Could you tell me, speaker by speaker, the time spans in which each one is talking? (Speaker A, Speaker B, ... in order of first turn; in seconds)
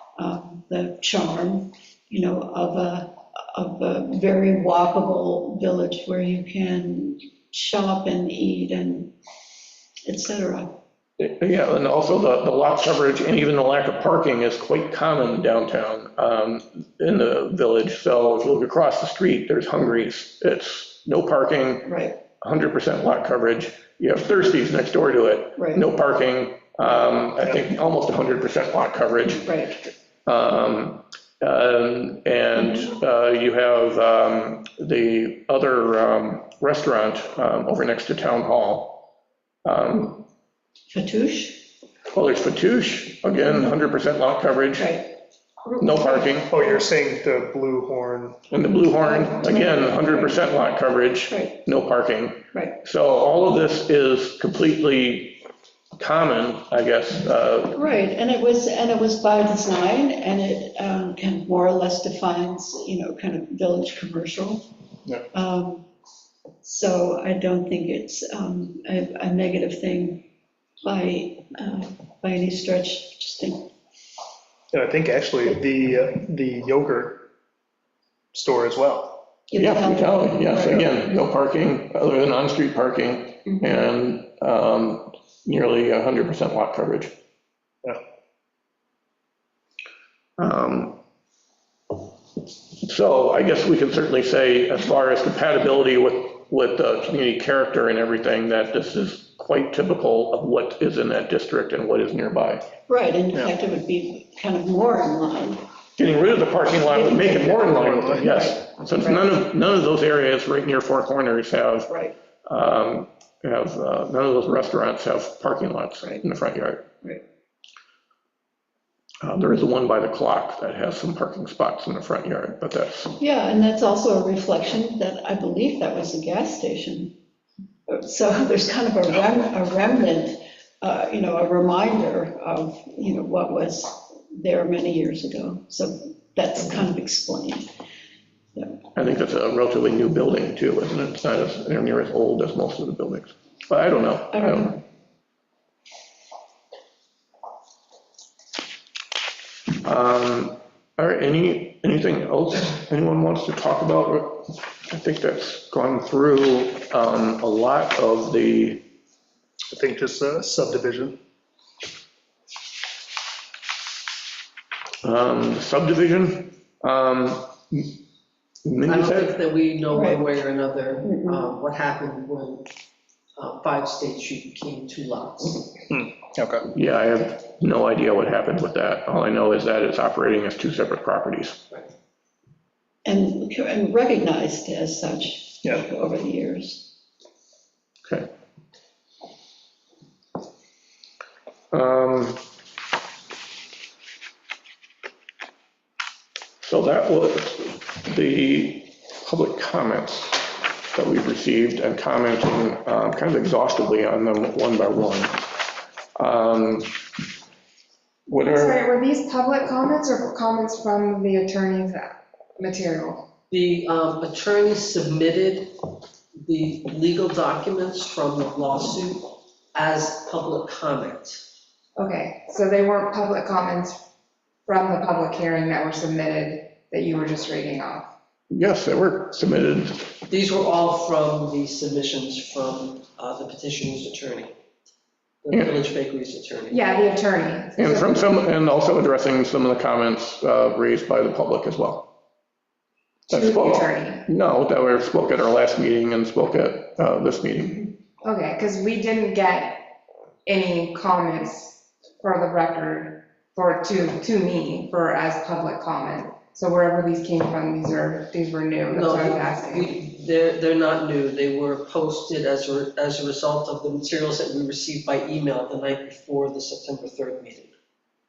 Speaker A: 0.2-9.1, 10.1-10.8, 21.8-22.2, 25.6-25.8, 29.4-29.8, 32.5-32.8, 40.9-41.6, 44.8-45.1, 45.6-46.7, 49.0-50.5, 51.3-51.6, 52.5-52.8, 57.7-64.7, 65.3-65.8, 66.6-70.2, 70.8-73.7, 79.5-81.0, 102.9-105.6, 106.9-109.3, 111.9-112.1, 123.2-127.1, 127.9-137.7, 138.5-138.8, 144.3-144.8, 169.9-170.2, 171.0-171.4, 183.0-186.9
Speaker B: 11.2-29.5, 30.2-39.0, 39.6-40.2, 42.1-45.0, 45.8-46.5, 48.5-55.4, 56.0-57.8, 79.6-87.1, 90.4-91.0, 92.8-102.6, 106.0-111.9, 112.5-116.8, 119.2-123.2, 138.9-144.8, 149.8-158.8, 165.0-168.0, 168.6-169.3, 176.7-181.6, 191.7-192.4, 196.6-205.7, 206.2-206.9, 208.3-208.8, 228.5-230.2, 237.8-242.1, 243.3-247.9
Speaker C: 46.5-48.4, 74.7-77.2, 78.3-79.2, 107.7-108.2, 159.7-161.2, 175.9-176.7
Speaker D: 168.8-172.7, 173.3-175.8, 213.5-215.7, 216.4-221.4, 230.3-234.5, 235.4-236.8, 258.9-267.7
Speaker E: 208.4-213.3, 221.9-224.0, 224.7-228.1, 236.7-238.3, 243.3-244.2, 248.2-249.9, 250.4-259.9